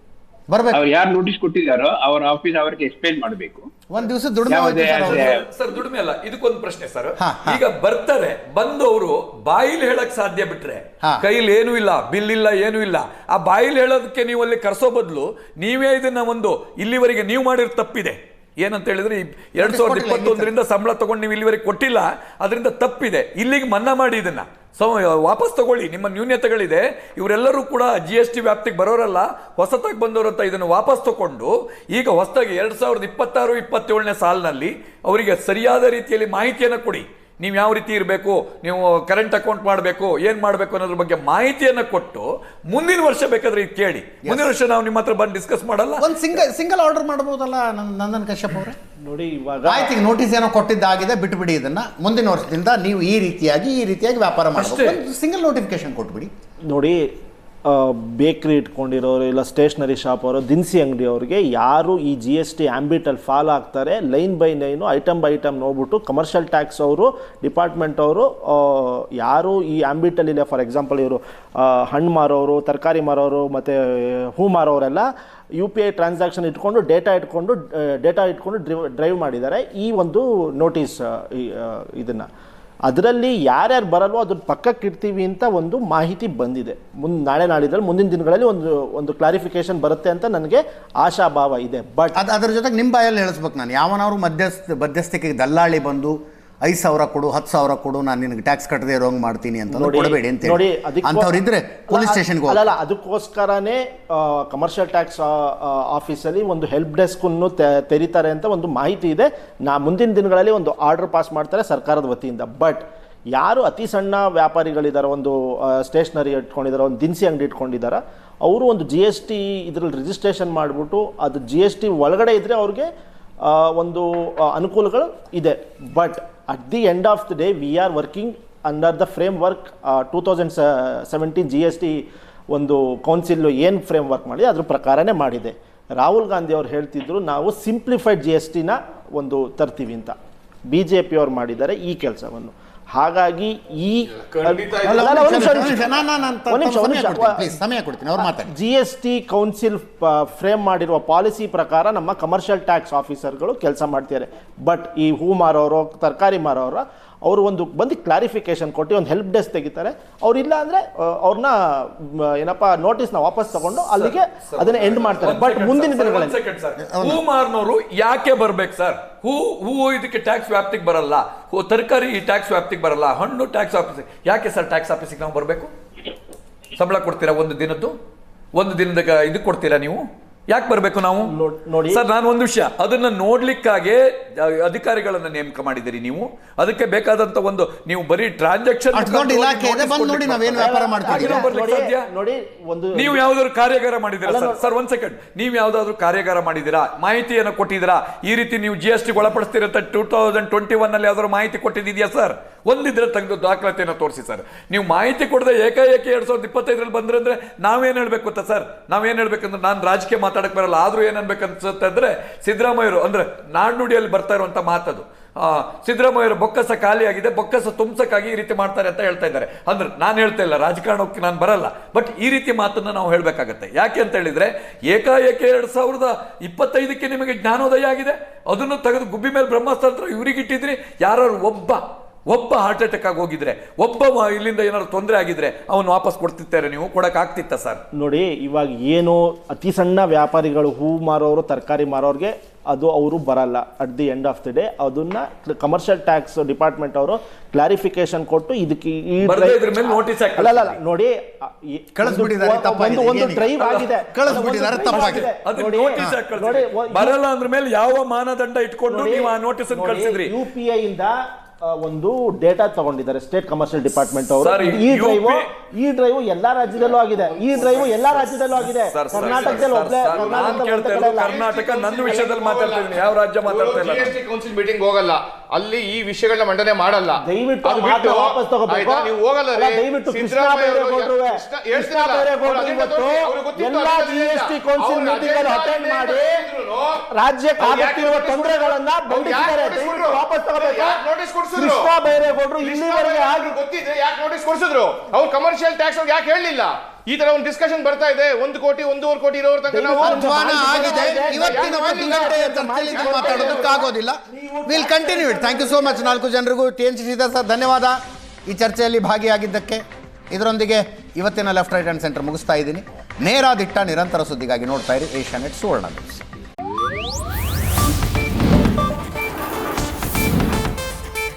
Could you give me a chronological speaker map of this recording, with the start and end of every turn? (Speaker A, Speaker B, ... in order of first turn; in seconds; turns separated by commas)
Speaker A: 0.5-0.8, Speaker B: 0.7-3.7, Speaker A: 3.9-5.3, Speaker B: 4.5-5.4, Speaker C: 5.0-46.5, Speaker A: 7.2-7.6, Speaker A: 19.6-20.5, Speaker A: 44.2-44.5, Speaker A: 46.0-48.8, Speaker D: 49.0-50.0, Speaker A: 49.6-56.3, Speaker C: 54.5-55.0, Speaker D: 56.7-57.0, Speaker D: 57.7-75.0, Speaker D: 75.6-82.3, Speaker D: 82.9-92.2, Speaker A: 92.2-102.7, Speaker D: 99.7-122.9, Speaker D: 123.4-140.2, Speaker D: 140.7-145.9, Speaker E: 144.3-145.7, Speaker A: 144.8-148.5, Speaker D: 146.5-147.5, Speaker D: 148.2-166.3, Speaker C: 163.8-175.7, Speaker A: 166.8-167.2, Speaker C: 176.8-177.9, Speaker C: 178.5-181.3, Speaker D: 181.2-182.0, Speaker C: 181.9-192.1, Speaker A: 188.9-191.5, Speaker D: 190.5-193.2, Speaker C: 192.9-237.8, Speaker D: 194.2-194.7, Speaker D: 237.9-257.2, Speaker C: 249.2-250.8, Speaker A: 252.0-253.5, Speaker C: 253.6-260.3, Speaker A: 254.1-255.3, Speaker D: 258.9-271.4, Speaker C: 264.4-265.5, Speaker E: 266.8-268.5, Speaker C: 268.5-274.2, Speaker E: 269.1-287.0, Speaker D: 277.2-286.4, Speaker D: 287.1-293.5, Speaker E: 287.6-291.9, Speaker E: 292.6-303.7, Speaker D: 299.7-306.2, Speaker A: 300.0-307.9, Speaker A: 308.5-316.2